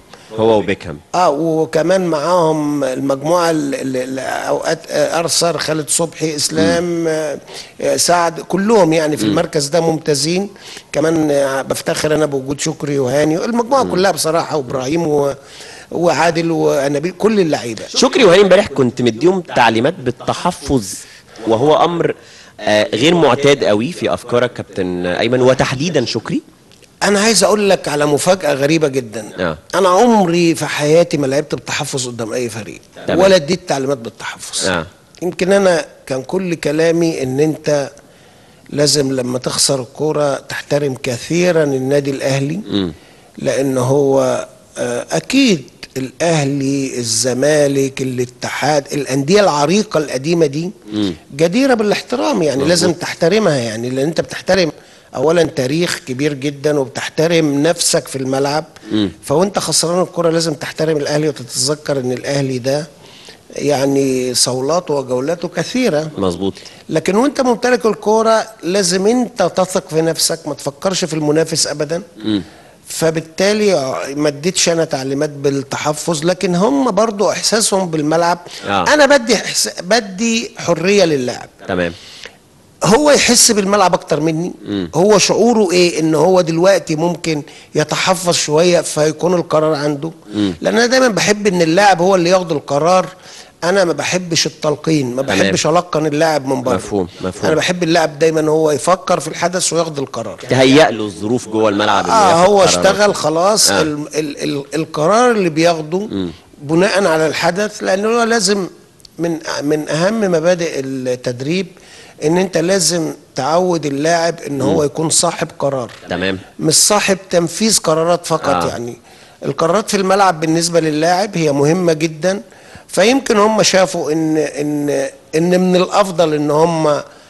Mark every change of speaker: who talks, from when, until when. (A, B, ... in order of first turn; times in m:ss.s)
0:00.3-0:01.0 A
0:01.1-0:15.4 B
0:15.9-0:17.9 B
0:17.9-0:26.4 A
0:27.0-0:37.9 B
0:33.1-0:33.3 A
0:34.6-0:34.9 A
0:38.7-0:42.6 B
0:43.4-0:50.7 B
0:51.3-0:58.7 B
0:59.2-1:02.8 B
1:03.6-1:06.1 B
1:06.2-1:06.6 A
1:06.9-1:12.0 B
1:12.9-1:21.6 B
1:18.6-1:18.9 A
1:21.6-1:21.9 A
1:22.9-1:33.1 B
1:33.6-1:36.9 B
1:35.3-1:35.6 A
1:36.7-1:37.6 A
1:37.4-1:40.6 B
1:40.5-1:43.1 A
1:41.9-1:51.7 B
1:52.2-1:56.0 B
1:56.1-1:56.4 A
1:56.6-2:07.0 B
1:58.4-1:58.7 A